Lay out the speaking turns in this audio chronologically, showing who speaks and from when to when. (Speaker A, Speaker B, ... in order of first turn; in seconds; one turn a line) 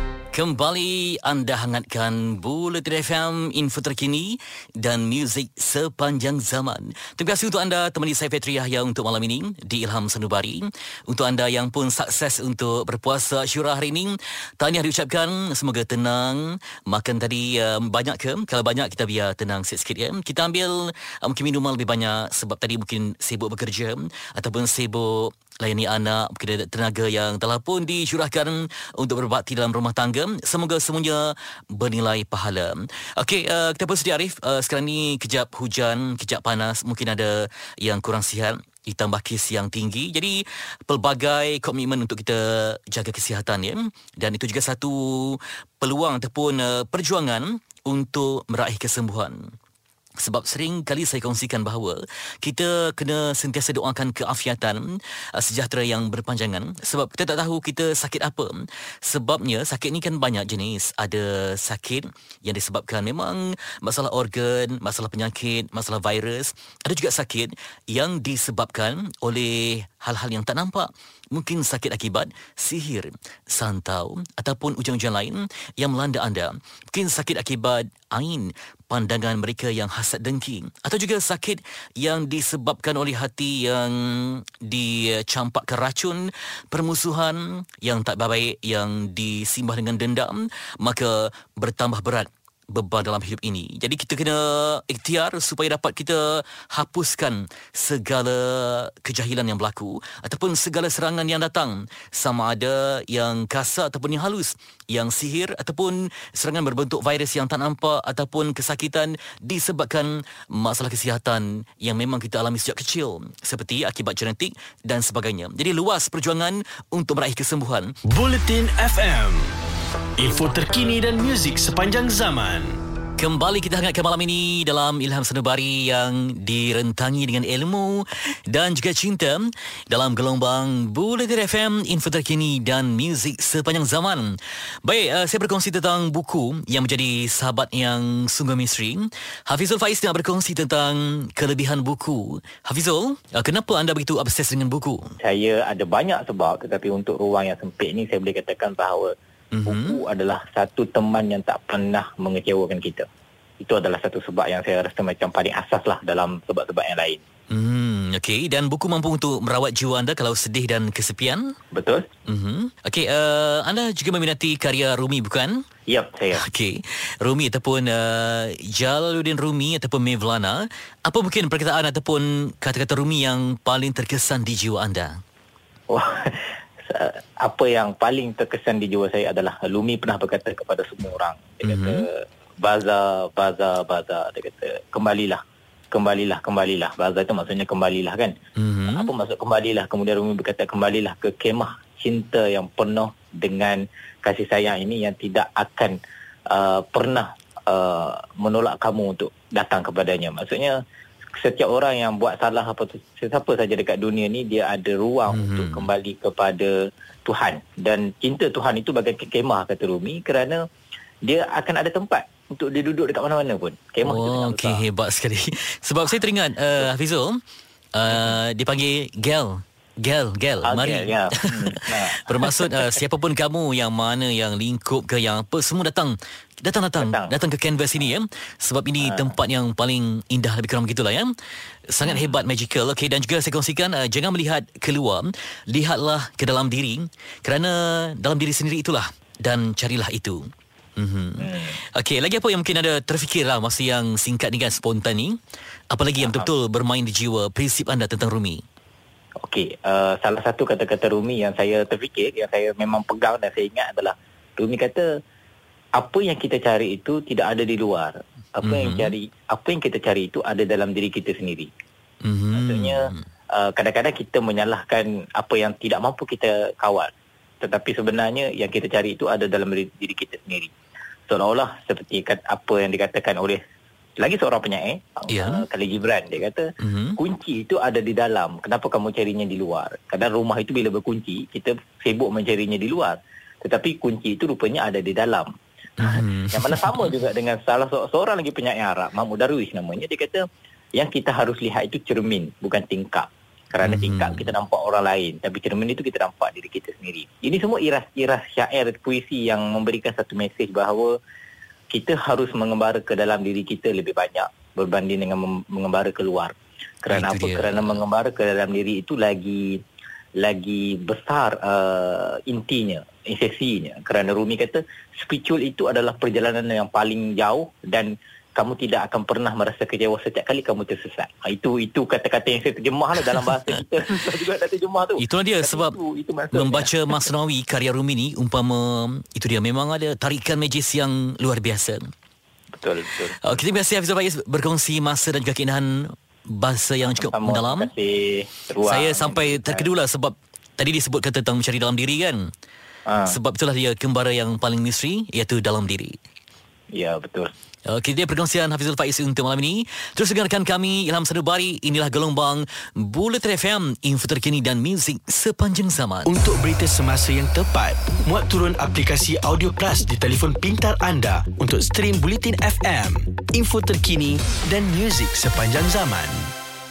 Speaker A: 0.3-49.4
Speaker A: 50.2-54.9
Speaker A: 55.4-117.9
Speaker B: 118.0-119.5
Speaker B: 120.2-122.8
Speaker A: 123.2-145.1
Speaker C: 145.2-149.1
Speaker A: 149.5-150.0
Speaker C: 149.7-153.1
Speaker C: 153.6-157.2
Speaker A: 157.5-161.5
Speaker C: 161.7-162.1
Speaker A: 162.3-165.6
Speaker C: 165.9-166.4
Speaker A: 166.3-175.2
Speaker C: 175.9-185.4
Speaker A: 181.6-182.0
Speaker C: 185.9-188.3
Speaker A: 188.6-189.1
Speaker C: 188.9-196.0
Speaker C: 196.5-200.8
Speaker C: 201.4-206.7
Speaker A: 205.3-205.9
Speaker C: 207.2-210.6
Speaker C: 211.3-214.8
Speaker A: 214.1-217.4
Speaker A: 217.9-231.3
Speaker C: 218.1-218.4
Speaker C: 220.6-223.0
Speaker C: 227.0-227.3
Speaker C: 229.0-229.3
Speaker A: 231.9-240.4
Speaker C: 232.1-232.3
Speaker A: 241.0-245.3
Speaker C: 241.4-241.7
Speaker A: 245.9-248.6
Speaker C: 246.2-246.5
Speaker C: 249.4-255.1
Speaker C: 256.0-261.7
Speaker A: 258.6-259.1
Speaker A: 262.2-263.2
Speaker C: 262.5-267.1
Speaker C: 267.6-270.7
Speaker C: 271.3-273.6
Speaker C: 274.2-276.6
Speaker A: 275.3-275.6
Speaker A: 276.8-277.2
Speaker C: 277.2-285.5
Speaker A: 286.0-287.1
Speaker C: 286.0-290.4
Speaker C: 290.9-301.1
Speaker A: 293.8-294.5
Speaker C: 301.9-309.8
Speaker A: 307.1-308.0
Speaker C: 310.4-326.9
Speaker A: 325.2-326.0
Speaker A: 326.5-332.1
Speaker C: 332.7-333.6
Speaker A: 333.4-337.9
Speaker C: 337.0-339.9
Speaker A: 338.9-342.5
Speaker C: 343.1-343.4
Speaker A: 343.3-346.2
Speaker C: 346.9-347.5
Speaker A: 347.9-356.3
Speaker B: 356.2-366.5